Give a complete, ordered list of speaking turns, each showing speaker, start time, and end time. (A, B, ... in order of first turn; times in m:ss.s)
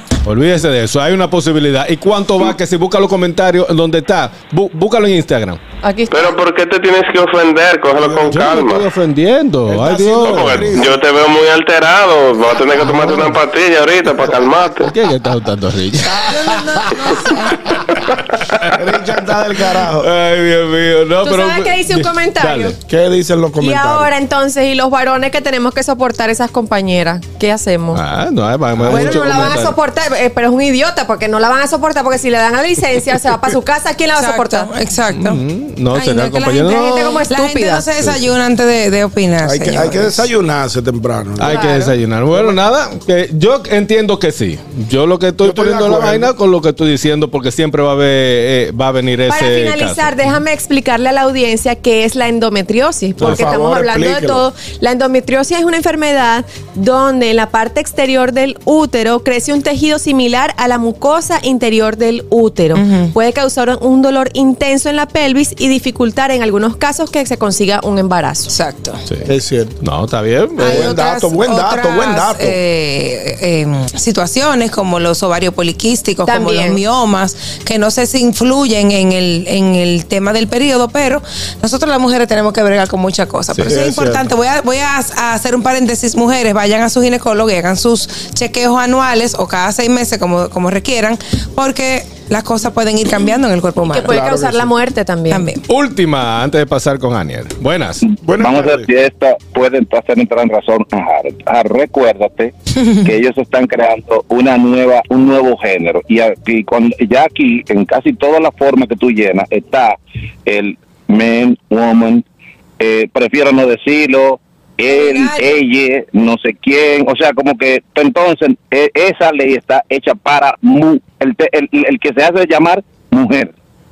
0:00.2-0:05.6 A
0:05.8-0:06.4 B
0:06.1-0:08.8 C
0:08.0-0:08.4 D
0:08.3-0:10.7 A
0:09.7-0:11.0 D
0:10.2-0:14.9 C
0:12.8-0:13.3 A
0:14.8-0:16.3 A
0:16.1-0:16.9 D
0:16.3-0:17.6 E
0:18.7-0:20.1 D
0:19.7-0:22.7 A
0:21.2-0:22.8 B
0:22.8-0:24.1 D
0:23.6-0:28.0 B
0:27.9-0:29.7 A
0:28.8-0:29.4 D
0:28.9-0:34.7 B
0:28.9-0:29.5 E
0:34.2-0:35.4 E
0:35.1-0:37.2 A
0:35.9-0:40.2 E
0:36.7-0:37.8 B
0:39.4-0:41.6 D
0:41.4-0:50.2 A
0:41.4-0:41.9 B
0:45.4-0:46.3 D
0:49.3-1:08.5 B
0:53.2-0:54.4 D
0:53.2-0:53.4 A
1:02.7-1:03.1 E
1:08.5-1:09.0 E
1:09.3-1:09.8 D
1:09.8-1:10.9 A
1:10.6-1:12.6 D
1:10.6-1:34.2 E
1:16.2-1:16.8 B
1:23.6-1:24.3 D
1:33.9-1:35.5 B
1:34.0-1:34.7 D
1:35.3-1:35.6 E
1:35.7-1:38.0 A
1:38.2-1:38.9 D
1:38.4-1:42.5 F
1:43.0-1:50.0 F
1:50.5-1:52.2 F
1:52.8-2:03.5 F
1:54.9-1:55.5 E